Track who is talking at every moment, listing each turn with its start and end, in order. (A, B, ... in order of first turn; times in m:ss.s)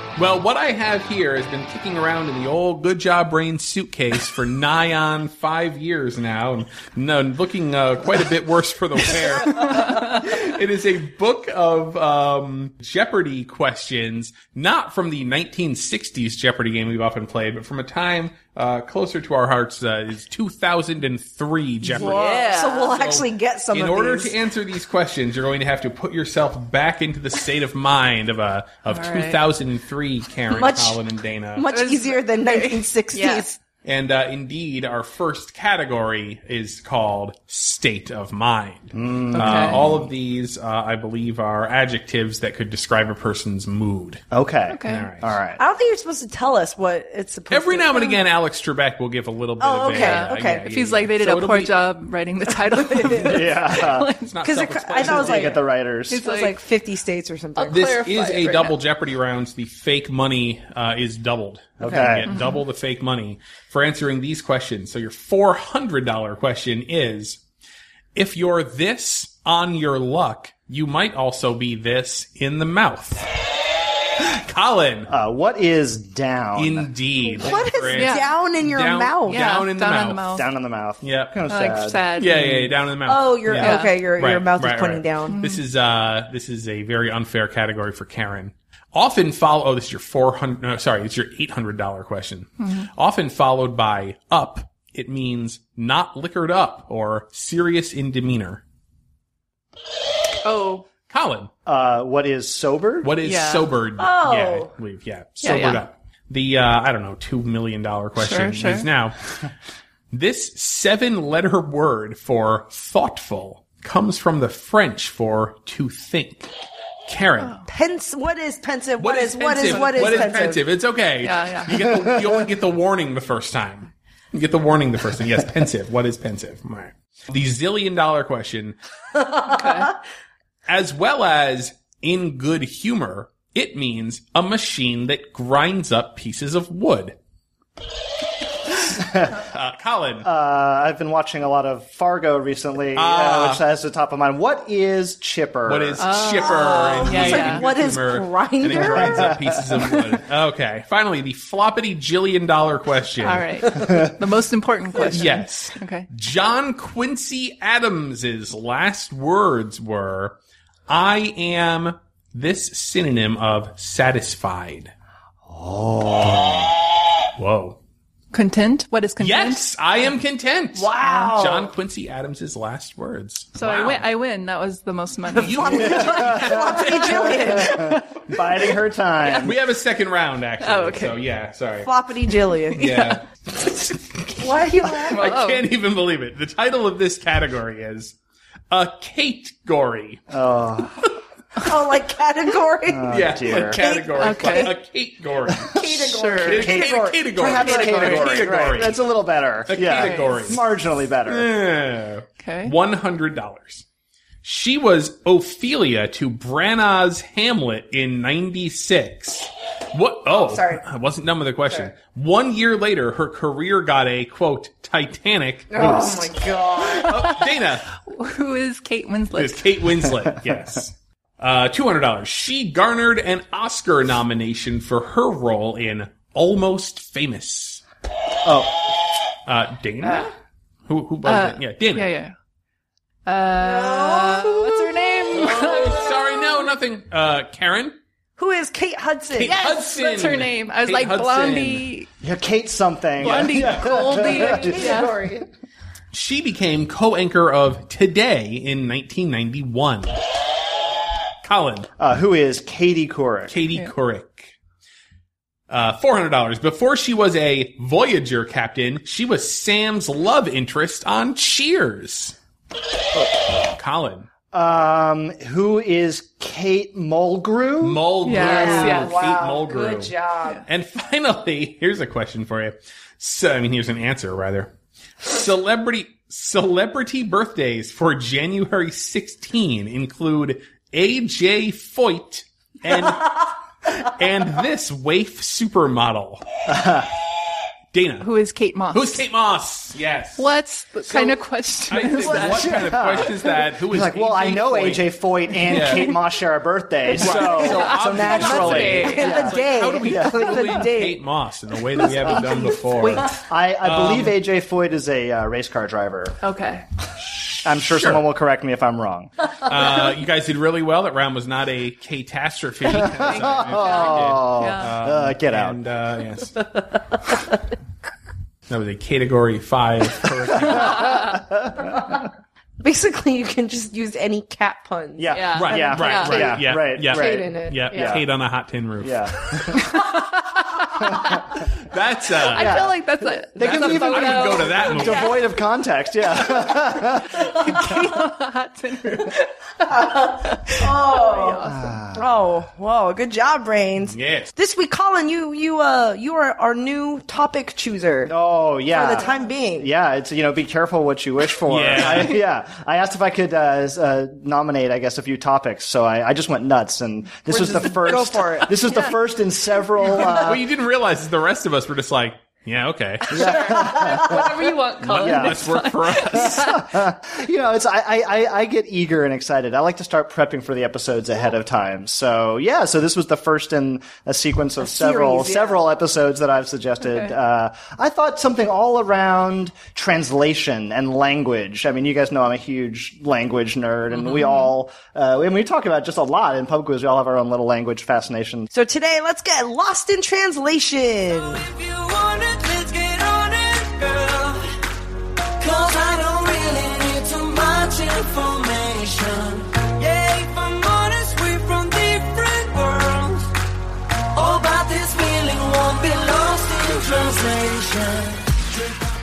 0:00.2-0:31.7 A
0:09.5-0:10.2 B
0:21.9-0:22.9 B
0:21.9-0:24.3 C
0:28.9-0:29.4 B
0:30.5-0:31.0 C
0:31.6-0:33.6 C
0:31.7-0:33.4 B
0:33.8-0:44.2 A
0:38.9-0:40.0 D
0:39.3-0:39.8 B
0:44.3-0:45.6 D
0:44.7-0:45.1 B
0:44.8-0:45.4 A
0:45.6-0:48.2 C
0:47.5-0:51.8 A
0:49.6-0:50.7 C
0:49.9-0:54.3 B
0:52.7-0:53.4 C
0:53.2-0:54.1 D
0:53.7-0:55.6 A
0:54.4-0:55.6 C
0:55.0-0:56.2 D
0:56.1-0:56.6 B
0:56.2-0:58.0 C
0:57.6-0:58.8 B
0:57.7-1:07.4 A
1:01.8-1:02.3 D
1:02.3-1:02.6 B
1:08.2-1:13.3 A
1:14.2-1:15.1 A
1:15.1-1:16.9 D
1:16.6-1:20.4 A
1:17.3-1:19.5 C
1:18.0-1:18.3 B
1:19.3-1:20.5 B
1:20.3-1:22.0 D
1:21.0-1:21.4 A
1:21.5-1:22.8 B
1:22.2-1:38.6 A
1:23.0-1:25.4 C
1:23.6-1:23.9 B
1:25.3-1:25.6 B
1:32.6-1:32.9 B
1:40.4-1:40.9 B
1:41.1-1:41.5 A
1:41.7-1:43.2 D
1:43.0-1:49.2 A
1:43.2-1:43.7 B
1:44.0-1:44.7 C
1:45.4-1:45.8 B
1:48.2-1:48.9 B
1:50.1-1:56.5 A
1:57.1-1:57.6 A
1:57.7-2:00.6 C
1:59.0-2:08.8 A
1:59.6-2:00.4 B
2:01.2-2:01.8 B
2:09.3-2:10.0 B
2:10.7-2:17.2 A
2:18.9-2:19.4 D
2:19.2-2:20.3 A
2:20.2-2:26.1 D
2:23.0-2:23.6 A
2:25.7-2:33.7 A
2:26.0-2:27.6 B
2:26.4-2:29.4 C
2:28.8-2:29.9 D
2:33.2-2:36.1 B
2:35.0-2:40.4 A
2:40.9-2:44.9 A
2:45.5-2:46.8 D
2:47.4-2:47.8 A
2:48.3-2:49.6 B
2:49.2-2:54.0 A
2:50.8-2:51.7 C
2:51.0-2:51.3 B
2:53.6-2:58.2 B
2:55.4-2:57.5 A
2:55.4-2:57.8 C
2:55.9-2:59.6 D
2:59.2-2:59.5 B
2:59.4-3:01.9 A
3:00.6-3:01.2 B
3:01.8-3:03.0 C
3:02.8-3:03.2 A
3:02.8-3:03.2 B
3:04.4-3:05.3 C
3:05.0-3:08.2 A
3:05.1-3:05.7 B
3:08.7-3:10.2 A
3:10.3-3:11.1 D
3:11.6-3:14.7 C
3:12.9-3:13.8 D
3:13.1-3:15.8 A
3:14.2-3:14.7 B
3:15.7-3:18.6 C
3:16.0-3:16.8 B
3:16.4-3:19.0 A
3:16.4-3:21.5 D
3:17.5-3:18.4 B
3:19.7-3:20.6 A
3:19.9-3:20.5 B
3:21.3-3:23.8 A
3:22.4-3:22.7 B
3:24.4-3:36.1 A
3:30.3-3:30.8 C
3:35.7-3:37.2 C
3:36.9-3:37.9 A
3:38.0-3:40.1 B
3:39.4-3:47.8 A
3:48.4-3:48.7 D
3:49.5-3:50.3 A
3:50.9-3:52.1 A
3:51.2-3:52.4 B
3:53.3-3:56.5 B
3:53.6-3:55.9 C
3:55.4-3:58.0 A
3:58.4-3:59.6 C
3:59.3-4:01.9 A
3:59.4-4:02.1 B
4:02.2-4:04.9 D
4:03.2-4:03.9 A
4:03.2-4:05.2 B
4:04.2-4:05.5 C
4:06.1-4:10.1 A
4:11.4-4:11.9 A
4:12.0-4:13.6 D
4:13.5-4:14.5 A
4:15.7-4:22.4 A
4:23.7-4:24.3 A
4:24.5-4:28.0 D
4:27.8-4:34.7 A
4:28.2-4:29.2 B
4:28.4-4:30.6 C
4:35.2-4:46.4 A
4:46.7-4:47.1 D
4:47.9-4:48.3 A
4:48.2-4:49.2 B
4:48.9-4:50.5 A
4:50.4-4:53.3 B
4:51.1-4:55.1 A
4:52.3-5:00.9 D
4:55.7-4:56.2 A
4:57.2-5:04.4 A
4:57.5-4:59.3 B
4:57.6-5:01.2 C
5:02.3-5:03.2 C
5:03.0-5:06.4 D
5:06.4-5:06.9 B
5:07.6-5:09.3 D
5:07.9-5:08.2 A
5:09.6-5:16.6 A
5:12.9-5:15.8 D
5:12.9-5:14.9 B
5:18.7-5:21.2 A
5:20.7-5:21.9 D
5:22.8-5:25.4 C
5:25.2-5:28.3 D
5:25.3-5:26.6 B
5:25.6-5:29.8 A
5:27.1-5:27.8 C
5:29.0-5:30.1 D
5:29.9-5:31.5 B
5:31.0-5:31.4 D
5:31.5-5:32.9 A
5:32.5-5:35.5 B
5:32.5-5:37.9 D
5:33.6-5:35.4 A
5:36.4-5:42.0 B
5:39.9-5:48.3 C
5:41.6-5:42.3 D
5:44.1-5:44.5 A
5:48.3-6:00.6 D
5:48.9-5:49.9 C
5:51.7-5:52.4 A
5:57.5-5:58.8 C
5:58.9-5:59.2 B
6:00.2-6:03.6 A
6:03.3-6:06.9 B
6:03.3-6:05.7 D
6:05.0-6:06.8 A
6:06.3-6:28.7 D
6:14.8-6:15.8 C
6:28.7-6:31.7 C
6:31.7-6:34.6 E
6:35.6-6:43.4 E
6:44.3-6:48.6 E